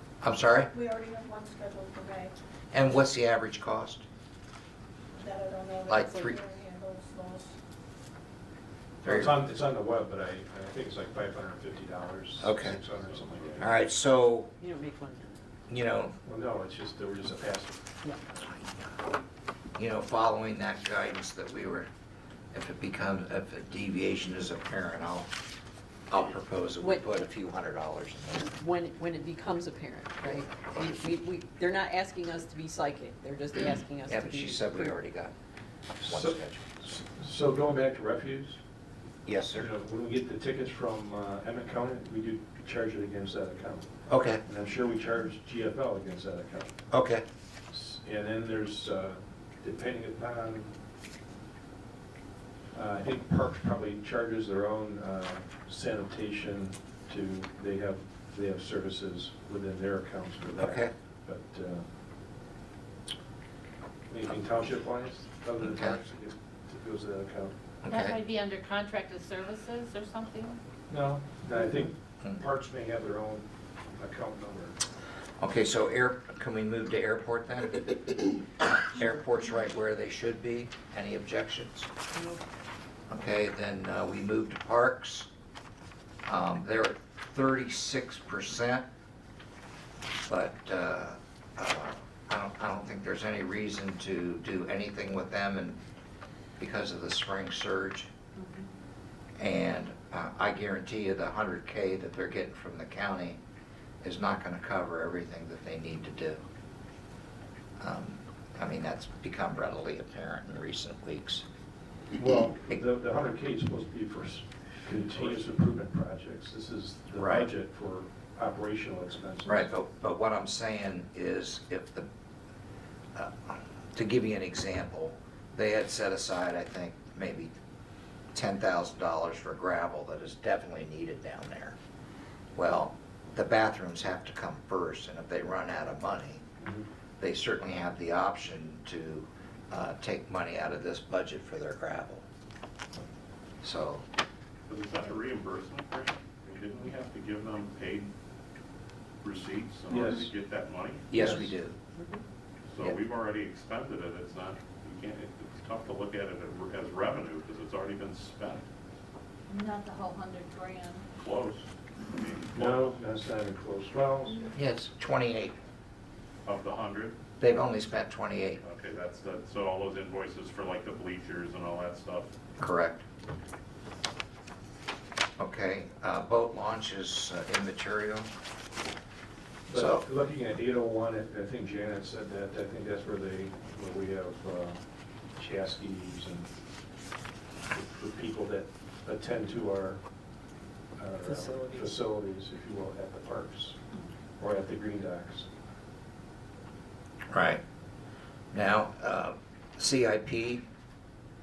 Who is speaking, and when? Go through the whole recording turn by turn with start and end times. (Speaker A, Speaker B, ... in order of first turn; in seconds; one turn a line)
Speaker A: 0.2-0.7
Speaker B: 0.7-2.3
Speaker A: 2.7-4.0
Speaker B: 5.2-7.6
Speaker A: 5.9-6.4
Speaker C: 9.0-13.7
Speaker A: 9.1-9.3
Speaker A: 12.4-12.8
Speaker D: 13.0-13.7
Speaker A: 13.6-14.5
Speaker E: 14.6-15.5
Speaker A: 15.7-16.2
Speaker C: 16.2-18.0
Speaker A: 18.5-18.9
Speaker A: 19.8-21.9
Speaker A: 22.5-25.3
Speaker A: 26.1-28.5
Speaker E: 26.8-27.3
Speaker E: 28.4-35.0
Speaker A: 34.1-35.3
Speaker A: 36.0-36.9
Speaker C: 36.0-38.6
Speaker A: 39.3-39.7
Speaker C: 39.5-46.8
Speaker A: 44.1-44.4
Speaker A: 46.9-47.2
Speaker C: 47.7-50.7
Speaker C: 52.7-61.9
Speaker A: 60.6-60.9
Speaker C: 64.1-67.5
Speaker A: 65.6-66.0
Speaker A: 67.8-68.2
Speaker F: 67.9-70.6
Speaker C: 70.9-74.8
Speaker A: 75.4-78.1
Speaker A: 78.8-81.9
Speaker E: 82.1-82.4
Speaker A: 83.1-85.3
Speaker A: 86.3-88.8
Speaker A: 90.3-95.8
Speaker A: 96.6-98.1
Speaker A: 99.4-103.4
Speaker A: 104.0-106.4
Speaker A: 107.8-111.5
Speaker C: 112.2-119.7
Speaker A: 117.2-117.5
Speaker A: 119.5-122.1
Speaker A: 123.1-127.5
Speaker A: 128.3-131.8
Speaker A: 132.6-136.4
Speaker C: 136.6-136.9
Speaker A: 137.2-142.2
Speaker A: 143.6-144.1
Speaker D: 144.7-148.1
Speaker D: 149.2-151.4
Speaker C: 149.9-150.3
Speaker A: 151.1-151.8
Speaker C: 151.1-151.5
Speaker E: 152.0-152.2
Speaker D: 152.7-158.7
Speaker F: 159.5-161.1
Speaker D: 161.2-163.0
Speaker C: 162.5-164.5
Speaker A: 164.5-165.6
Speaker D: 166.4-167.2
Speaker A: 167.4-168.6
Speaker D: 168.6-172.3
Speaker A: 172.6-173.0
Speaker A: 175.4-178.3
Speaker C: 179.7-184.8
Speaker A: 179.8-180.1
Speaker C: 185.4-186.5
Speaker C: 187.7-190.0
Speaker C: 191.0-193.8
Speaker E: 191.3-191.9
Speaker C: 194.4-195.5
Speaker A: 197.3-197.6
Speaker A: 198.5-200.7